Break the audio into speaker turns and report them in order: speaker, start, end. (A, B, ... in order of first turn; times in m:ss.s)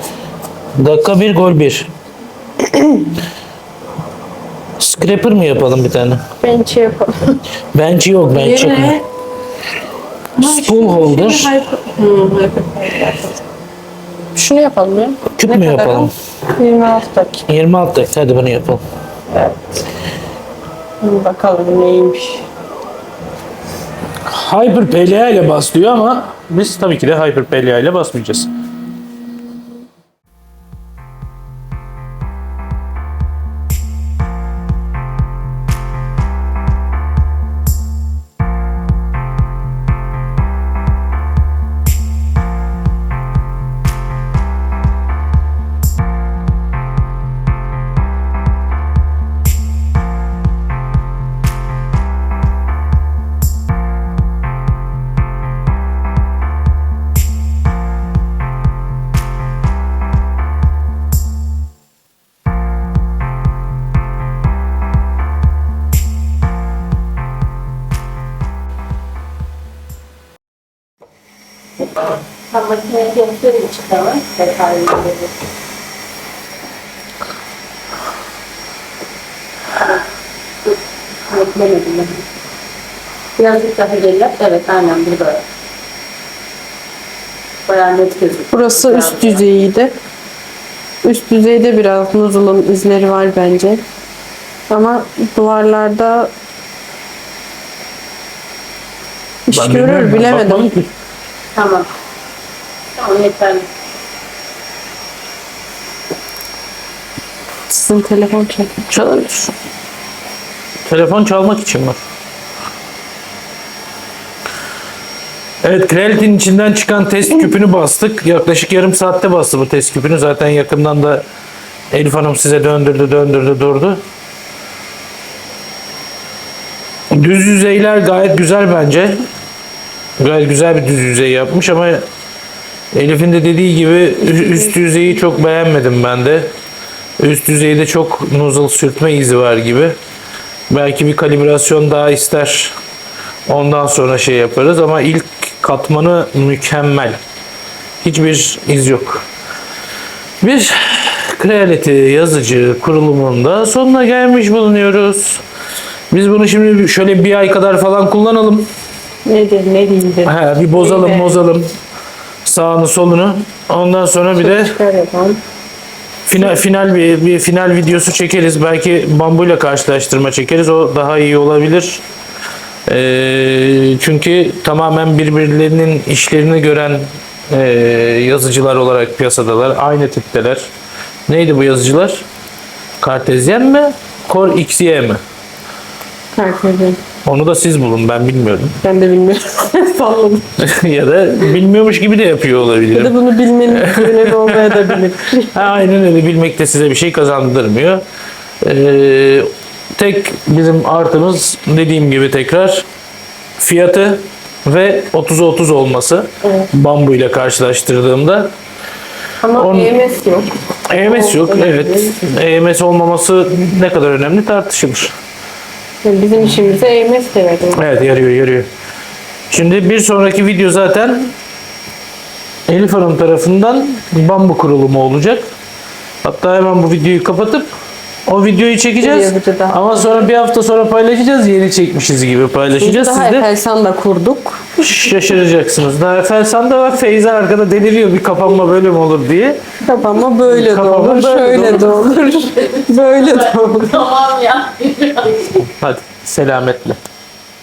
0:00.8-0:01.9 A
0:04.8-0:06.2 A
0:06.4-0:07.4 B
0:07.7-0:09.0 A
0:08.3-0:09.0 B
0:10.4-0:13.4 B
0:10.4-0:11.6 A
0:14.3-0:17.5 B
0:15.4-0:16.1 A
0:17.5-0:18.8 A
0:19.3-0:19.8 B
0:21.0-0:22.5 B
0:24.2-0:28.5 A
1:12.5-1:15.3 C
1:21.3-1:22.2 C
1:23.4-1:25.4 C
1:27.6-1:29.4 C
1:28.5-1:29.9 B
1:31.0-1:33.8 B
1:34.7-1:36.3 B
1:39.4-1:40.7 B
1:39.5-1:40.9 A
1:41.5-1:41.9 C
1:43.0-1:43.7 C
1:47.7-1:48.8 B
1:48.9-1:49.5 A
1:50.8-1:52.0 A
1:55.6-2:01.2 A
2:01.9-2:04.0 A
2:07.1-2:09.2 A
2:10.2-2:12.0 A
2:12.9-2:16.5 A
2:17.2-2:20.0 A
2:20.7-2:22.8 A
2:23.5-2:27.2 A
2:28.0-2:29.2 A
2:30.4-2:35.4 A
2:36.1-2:38.7 A
2:39.2-2:41.3 B
2:40.2-2:41.7 A
2:42.4-2:44.8 A
2:44.4-2:45.4 B
2:46.2-2:52.0 A
2:52.9-3:00.7 A
3:01.3-3:02.2 A
3:03.0-3:05.2 A
3:06.3-3:07.0 B
3:07.2-3:08.8 A
3:08.8-3:10.5 B
3:10.6-3:13.2 A
3:12.9-3:15.7 B
3:13.7-3:18.0 A
3:18.6-3:22.9 A
3:23.6-3:28.5 A
3:29.4-3:32.2 B
3:29.5-3:29.9 A
3:30.9-3:35.1 A
3:36.0-3:37.8 B
3:37.7-3:38.7 A
3:39.5-3:41.3 A
3:42.7-3:45.5 A
3:46.2-3:47.7 A
3:48.3-3:53.4 A
3:49.0-3:49.8 B
3:52.8-3:54.8 B
3:54.8-3:59.6 A
3:59.8-4:04.0 B
4:00.5-4:02.0 A
4:02.2-4:05.6 C
4:05.6-4:07.0 A